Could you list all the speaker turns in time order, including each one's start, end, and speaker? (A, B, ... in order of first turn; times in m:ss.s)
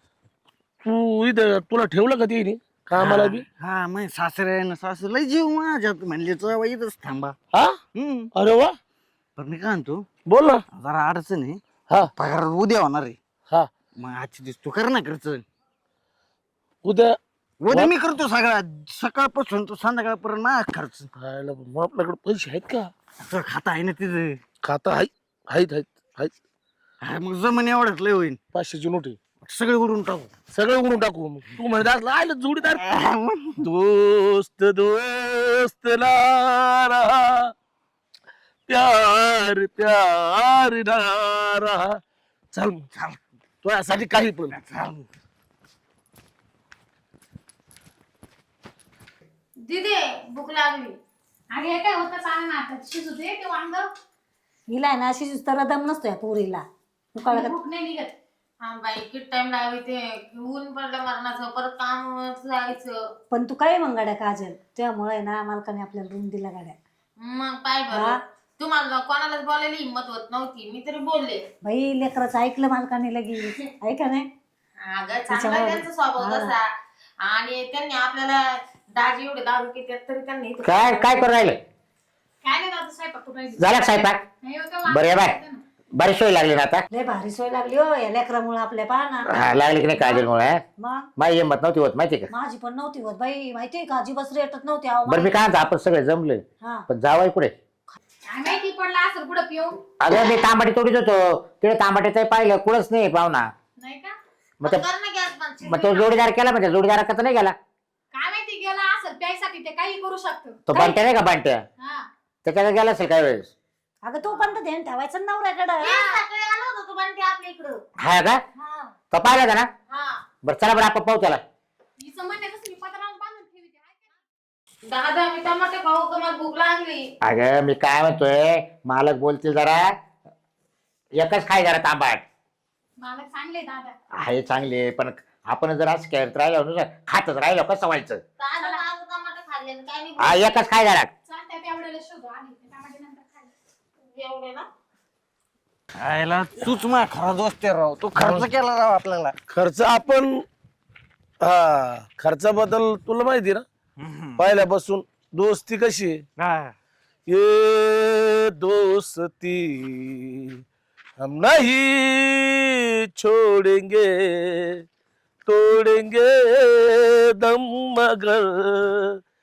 0:00.8-0:03.5 A
0:03.0-0:07.4 B
0:07.5-0:07.8 A
0:08.0-0:08.3 B
0:08.4-0:08.8 A
0:09.4-0:10.1 B
0:10.3-0:10.6 A
0:10.7-0:11.6 B
0:12.2-0:13.2 B
0:14.0-0:15.4 B
0:16.8-0:17.2 A
0:17.6-0:21.1 B
0:21.2-0:22.9 A
0:23.2-0:24.4 B
0:24.6-0:26.3 A
0:27.0-0:28.4 B
0:28.5-0:29.2 A
0:29.4-0:30.3 B
0:30.5-0:32.8 A
0:32.8-0:33.6 B
0:33.6-0:37.5 A
0:38.7-0:42.0 A
0:42.5-0:42.8 A
0:42.9-0:43.2 B
0:43.6-0:44.6 A
0:44.5-0:45.1 B
0:49.7-0:51.0 C
0:51.5-0:53.9 D
0:54.7-0:57.6 E
0:57.3-0:58.1 D
0:58.6-1:03.0 C
1:03.3-1:06.8 E
1:07.2-1:11.4 C
1:07.9-1:08.2 E
1:11.6-1:14.3 E
1:14.8-1:16.7 C
1:15.3-1:16.5 E
1:17.2-1:21.0 C
1:20.6-1:21.6 F
1:22.4-1:25.6 D
1:23.6-1:24.2 F
1:24.9-1:25.4 F
1:26.0-1:26.8 F
1:26.9-1:29.3 E
1:29.3-1:30.6 F
1:30.8-1:31.1 E
1:31.2-1:32.3 F
1:32.3-1:35.4 E
1:35.1-1:37.5 F
1:36.6-1:36.9 E
1:38.3-1:39.8 D
1:40.0-1:43.5 F
1:43.8-1:44.2 D
1:44.6-1:46.1 C
1:45.6-1:47.6 F
1:48.1-1:51.0 D
1:50.7-1:51.6 F
1:51.8-1:52.1 D
1:52.4-1:53.5 F
1:54.0-1:56.2 E
1:55.8-1:57.8 C
1:58.0-1:58.4 F
1:58.6-1:58.9 C
1:59.1-1:59.7 F
1:59.9-2:00.2 C
2:00.4-2:01.4 F
2:02.0-2:04.0 D
2:04.9-2:07.1 C
2:07.2-2:10.0 F
2:11.2-2:12.2 F
2:13.0-2:14.0 D
2:14.2-2:18.2 F
2:18.4-2:20.6 C
2:20.2-2:21.1 F
2:21.3-2:23.5 D
2:24.1-2:24.7 C
2:26.0-2:29.3 B
2:28.2-2:28.5 A
2:29.5-2:30.4 A
2:31.4-2:33.6 A
2:34.0-2:34.6 B
2:34.4-2:36.2 A
2:36.4-2:36.8 B
2:37.3-2:40.6 A
2:41.2-2:44.8 A
2:45.5-2:49.2 A